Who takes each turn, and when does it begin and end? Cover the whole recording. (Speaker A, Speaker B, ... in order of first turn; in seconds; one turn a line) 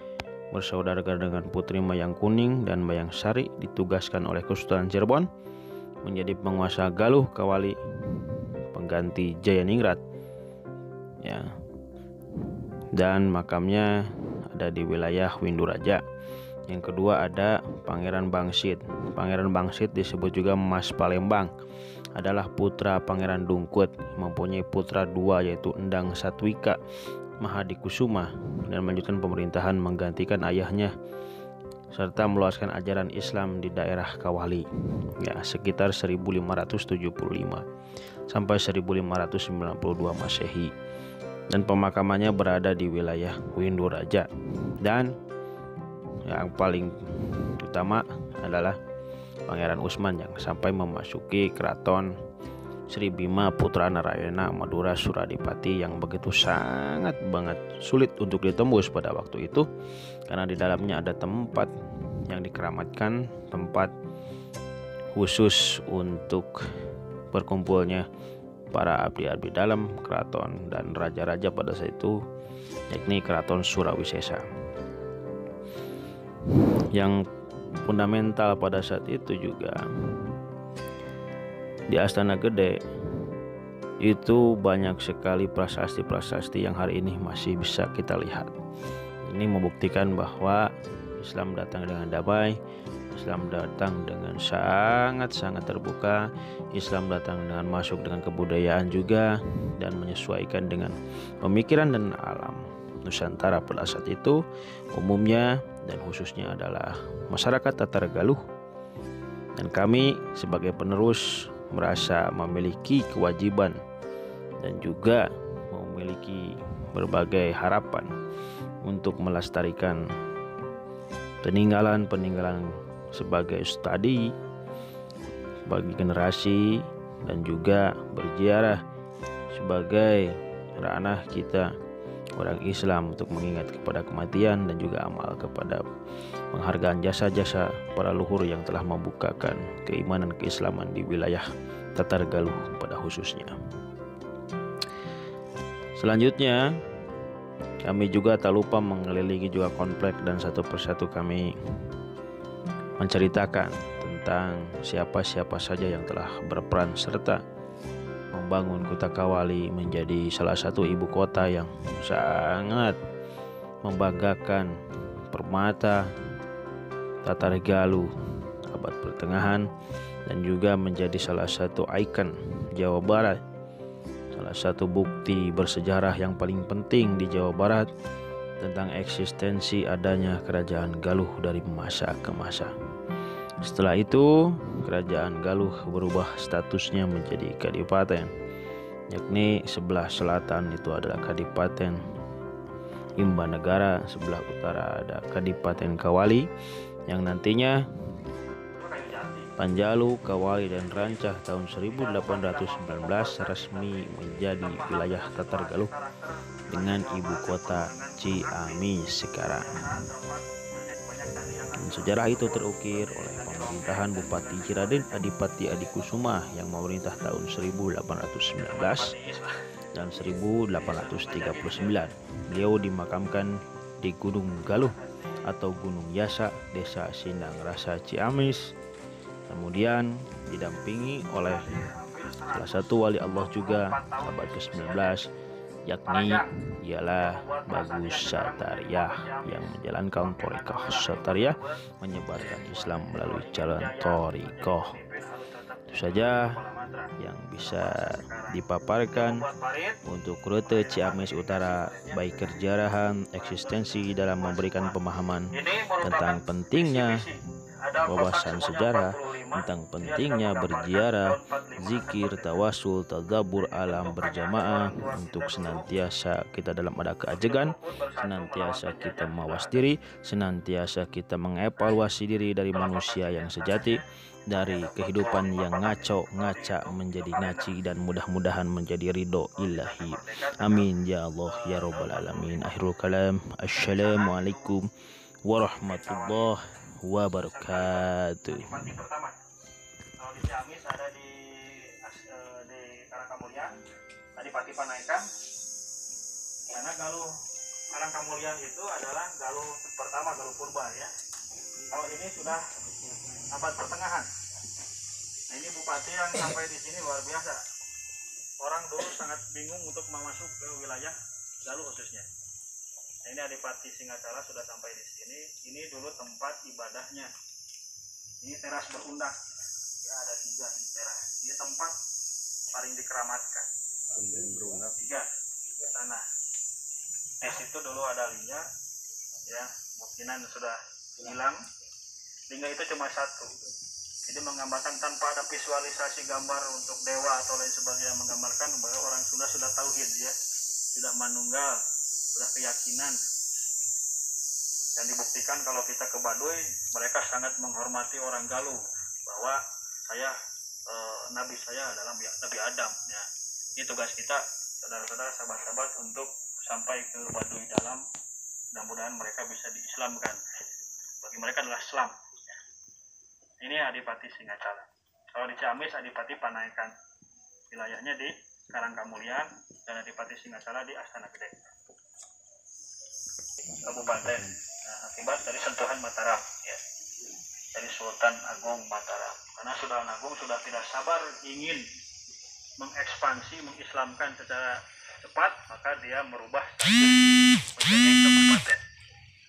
Speaker A: 0.5-5.3
Speaker A: 6.0-10.0
Speaker A: 11.2-11.5
Speaker A: 12.9-16.0
Speaker A: 16.7-21.5
Speaker A: 22.1-26.8
Speaker A: 27.4-30.9
Speaker A: 31.9-34.7
Speaker A: 35.2-37.6
Speaker A: 38.3-40.7
Speaker A: 41.5-44.3
Speaker A: 44.8-45.1
Speaker A: 46.3-48.8
Speaker A: 49.5-52.1
Speaker A: 52.9-59.7
Speaker A: 60.3-61.7
Speaker A: 62.3-63.9
Speaker A: 65.1-66.6
Speaker A: 67.3-68.0
Speaker A: 68.7-72.2
Speaker A: 72.9-74.4
Speaker A: 76.9-77.2
Speaker A: 77.8-80.3
Speaker A: 81.9-83.3
Speaker A: 84.0-88.5
Speaker A: 89.2-90.7
Speaker A: 91.2-92.6
Speaker A: 93.1-104.4
Speaker A: 105.0-108.4
Speaker A: 109.6-113.8
Speaker A: 114.6-118.1
Speaker A: 118.8-120.0
Speaker A: 121.4-124.3
Speaker A: 125.7-128.8
Speaker A: 129.5-131.7
Speaker A: 132.4-135.8
Speaker A: 136.5-141.4
Speaker A: 142.0-143.5
Speaker A: 146.0-146.7
Speaker A: 147.8-151.5
Speaker A: 153.0-157.4
Speaker A: 158.3-163.0
Speaker A: 163.8-164.7
Speaker A: 165.3-166.0
Speaker A: 167.2-168.1
Speaker A: 168.7-169.7
Speaker A: 170.3-173.4
Speaker A: 174.3-177.9
Speaker A: 178.6-182.7
Speaker A: 183.6-188.3
Speaker A: 189.1-192.0
Speaker A: 193.2-196.5
Speaker A: 197.1-197.8
Speaker B: 198.8-199.5
Speaker A: 199.6-205.9
Speaker B: 200.8-201.1
Speaker B: 201.9-208.9
Speaker A: 206.7-209.7
Speaker B: 209.5-215.2
Speaker A: 211.8-219.2
Speaker B: 218.6-219.7
Speaker A: 219.9-228.7
Speaker B: 220.8-222.1
Speaker B: 224.7-225.4
Speaker A: 229.5-231.7
Speaker B: 231.4-235.2
Speaker A: 232.5-235.3
Speaker A: 235.9-245.0
Speaker B: 236.1-236.5
Speaker B: 237.1-241.8
Speaker B: 242.3-248.6
Speaker A: 245.9-246.5
Speaker A: 247.2-249.4
Speaker B: 249.1-250.0
Speaker A: 250.1-255.5
Speaker B: 250.6-252.4
Speaker B: 253.4-255.0
Speaker B: 255.5-262.7
Speaker A: 256.0-257.3
Speaker A: 258.1-284.9
Speaker B: 263.5-265.9
Speaker B: 267.3-269.9
Speaker B: 272.7-277.7
Speaker B: 279.6-280.9
Speaker B: 281.4-282.8
Speaker B: 283.7-284.8
Speaker A: 285.5-288.9
Speaker B: 285.8-286.5
Speaker B: 287.4-289.4
Speaker B: 290.2-293.8
Speaker B: 294.4-295.3
Speaker B: 296.7-297.3
Speaker B: 297.9-301.1
Speaker B: 301.9-302.6
Speaker B: 303.3-304.3
Speaker B: 305.5-307.6
Speaker B: 308.6-312.3
Speaker B: 313.2-317.3
Speaker B: 318.4-322.0
Speaker B: 322.7-323.7
Speaker B: 324.8-326.3
Speaker B: 327.4-328.7
Speaker B: 329.5-331.6
Speaker B: 332.5-333.5
Speaker B: 334.2-340.4
Speaker B: 340.9-341.8
Speaker B: 342.4-343.2
Speaker B: 344.9-350.4
Speaker B: 350.9-358.1
Speaker B: 358.7-362.6
Speaker B: 363.6-366.9
Speaker B: 367.7-371.6
Speaker B: 373.7-376.8
Speaker B: 377.7-381.9
Speaker B: 382.8-388.8